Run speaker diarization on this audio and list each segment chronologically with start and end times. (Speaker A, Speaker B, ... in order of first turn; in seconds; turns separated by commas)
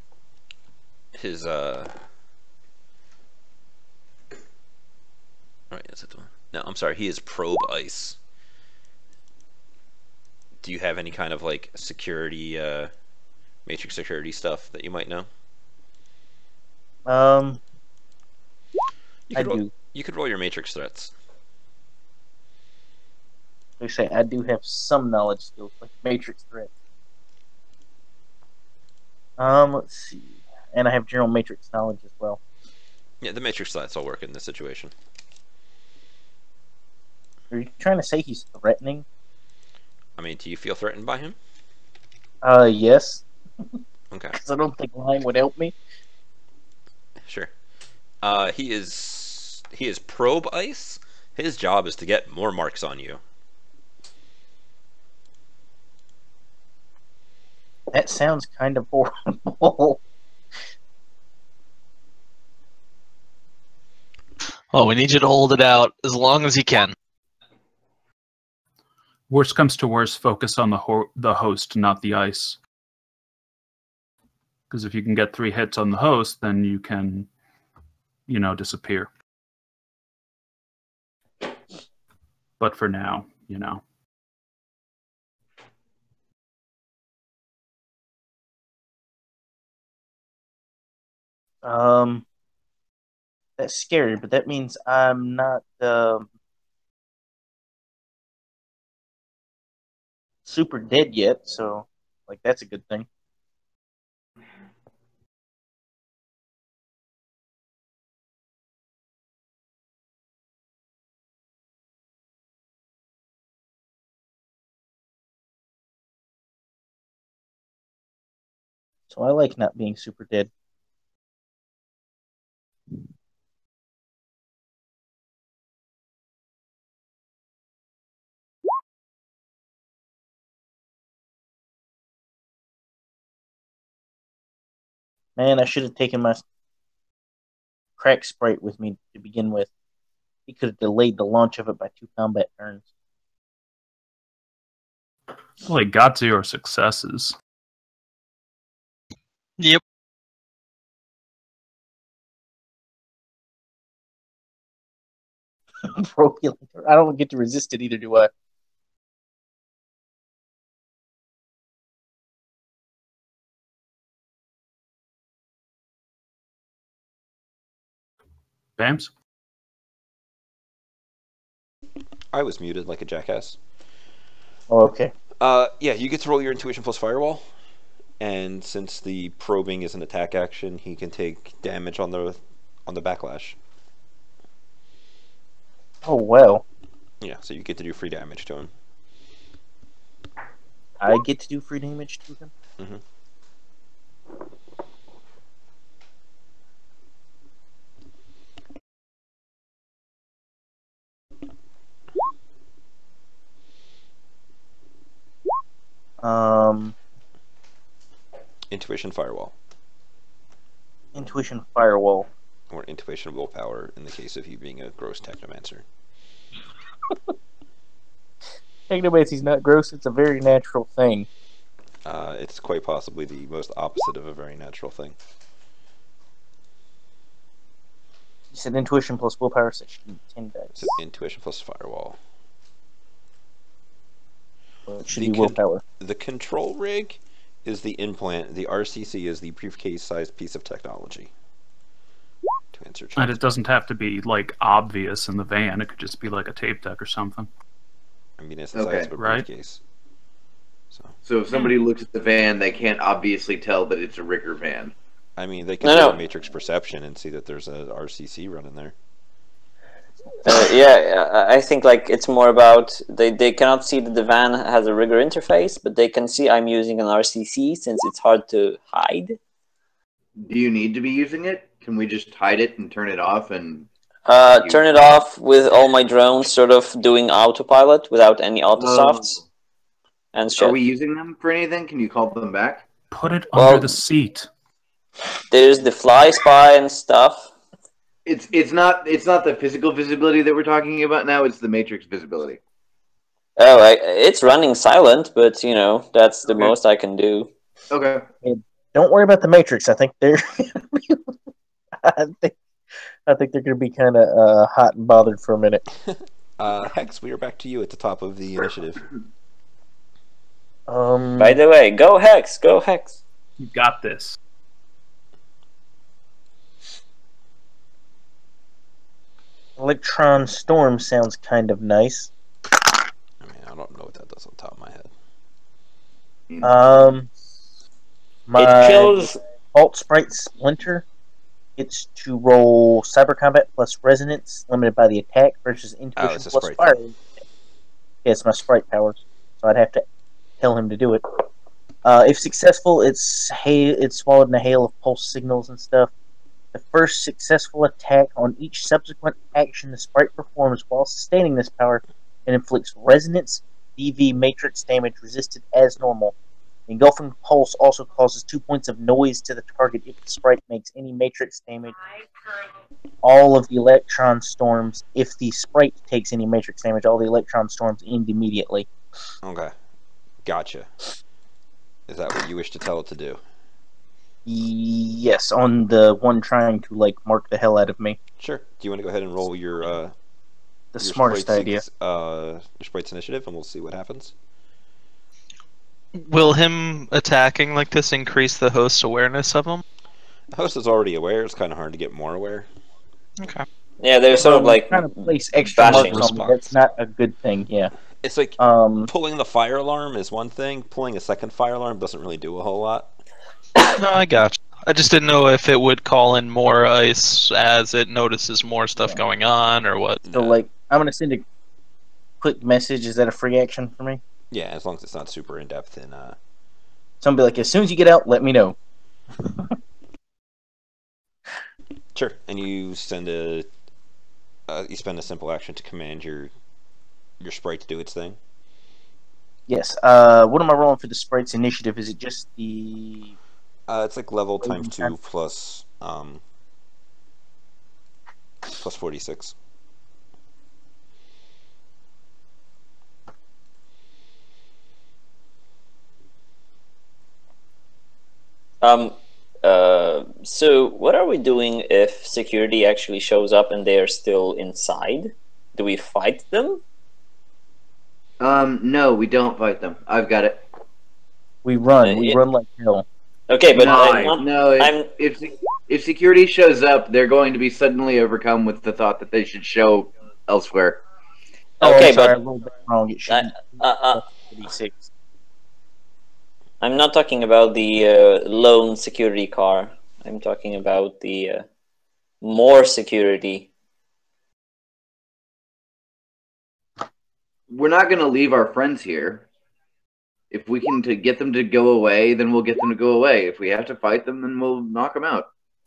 Speaker A: 1.1-2.0, Speaker A: 5.7-8.2, Speaker A: 10.6-12.9, Speaker A: 13.7-15.3, Speaker B: 17.1-17.6, Speaker A: 19.3-21.1, Speaker B: 19.3-19.7, Speaker B: 23.8-26.7, Speaker B: 29.4-32.4, Speaker A: 33.2-34.9, Speaker B: 37.5-39.0, Speaker A: 40.2-41.4, Speaker B: 42.4-43.2, Speaker A: 44.1-44.4, Speaker B: 44.4-45.8, Speaker A: 47.3-47.5, Speaker A: 48.2-53.2, Speaker B: 57.9-60.0, Speaker C: 64.7-67.0, Speaker D: 69.3-72.6, Speaker D: 74.7-77.3, Speaker D: 78.3-79.1, Speaker D: 82.6-83.8, Speaker B: 91.6-92.2, Speaker B: 93.6-96.3, Speaker B: 100.5-103.1, Speaker B: 119.1-120.5, Speaker B: 135.4-136.4, Speaker B: 138.0-139.7, Speaker B: 140.5-142.9, Speaker D: 145.6-147.4, Speaker B: 155.8-158.3, Speaker D: 168.8-169.1, Speaker A: 172.3-173.6, Speaker B: 174.7-175.1, Speaker A: 175.4-177.5, Speaker A: 178.2-183.6, Speaker B: 186.0-186.6, Speaker A: 187.2-188.7, Speaker B: 191.0-192.5, Speaker B: 206.2-207.0, Speaker A: 208.7-209.6, Speaker B: 211.1-212.3, Speaker A: 212.7-215.8, Speaker B: 218.9-221.3, Speaker A: 222.1-225.2, Speaker B: 228.5-231.0, Speaker A: 230.8-232.2, Speaker B: 234.9-235.8, Speaker A: 235.1-241.3, Speaker A: 242.7-243.4, Speaker D: 243.2-247.5, Speaker A: 248.4-249.8, Speaker E: 248.7-249.1, Speaker D: 249.2-249.5, Speaker E: 251.2-254.9, Speaker A: 255.4-258.9, Speaker F: 255.8-256.2, Speaker F: 260.4-269.4, Speaker E: 270.4-273.9, Speaker F: 274.3-279.4, Speaker E: 274.5-274.8, Speaker E: 278.8-279.5, Speaker F: 280.3-280.8, Speaker E: 280.6-282.9, Speaker D: 283.1-284.5, Speaker F: 283.6-284.0, Speaker F: 285.5-287.5, Speaker E: 288.3-292.6, Speaker F: 293.6-297.5, Speaker E: 297.9-298.2, Speaker B: 298.4-301.4, Speaker B: 302.0-302.6, Speaker B: 303.3-305.8, Speaker A: 306.1-309.0, Speaker B: 310.9-311.6, Speaker F: 311.4-313.2, Speaker D: 313.6-314.4, Speaker B: 319.8-322.3, Speaker A: 323.4-325.1, Speaker E: 326.5-326.9, Speaker B: 326.6-327.3, Speaker B: 328.5-331.1, Speaker F: 328.6-329.4, Speaker B: 331.8-337.2, Speaker A: 336.2-337.0, Speaker B: 338.2-340.0, Speaker B: 340.6-341.2, Speaker B: 342.0-346.1, Speaker B: 346.7-356.4, Speaker B: 356.9-362.0, Speaker B: 363.2-368.9, Speaker A: 369.4-369.7, Speaker A: 370.4-370.9, Speaker A: 372.1-373.4, Speaker B: 374.4-378.2, Speaker A: 378.4-380.1, Speaker B: 380.9-381.8, Speaker A: 381.0-384.3, Speaker C: 386.1-389.8, Speaker A: 390.5-392.7, Speaker C: 393.4-393.7, Speaker F: 394.0-396.5, Speaker B: 394.4-397.9, Speaker C: 395.8-396.6, Speaker A: 398.2-403.1, Speaker B: 398.6-399.1, Speaker C: 403.8-410.3, Speaker A: 410.2-410.6, Speaker B: 410.3-411.4, Speaker B: 412.4-414.2, Speaker A: 414.5-416.4, Speaker B: 417.2-418.8, Speaker B: 419.4-419.7, Speaker A: 422.1-423.7, Speaker A: 424.7-426.5, Speaker A: 427.4-428.4, Speaker B: 429.7-433.4, Speaker A: 433.9-436.4, Speaker B: 434.6-435.1, Speaker A: 438.7-439.6, Speaker F: 448.8-456.8, Speaker E: 458.4-460.6, Speaker B: 461.6-463.1, Speaker F: 462.0-462.4, Speaker F: 463.5-465.1, Speaker E: 463.7-471.0, Speaker D: 463.8-464.4, Speaker B: 471.8-475.1, Speaker F: 471.8-472.4, Speaker F: 473.3-474.2, Speaker F: 476.8-481.6, Speaker F: 482.4-483.7, Speaker E: 487.7-489.5, Speaker E: 490.5-495.5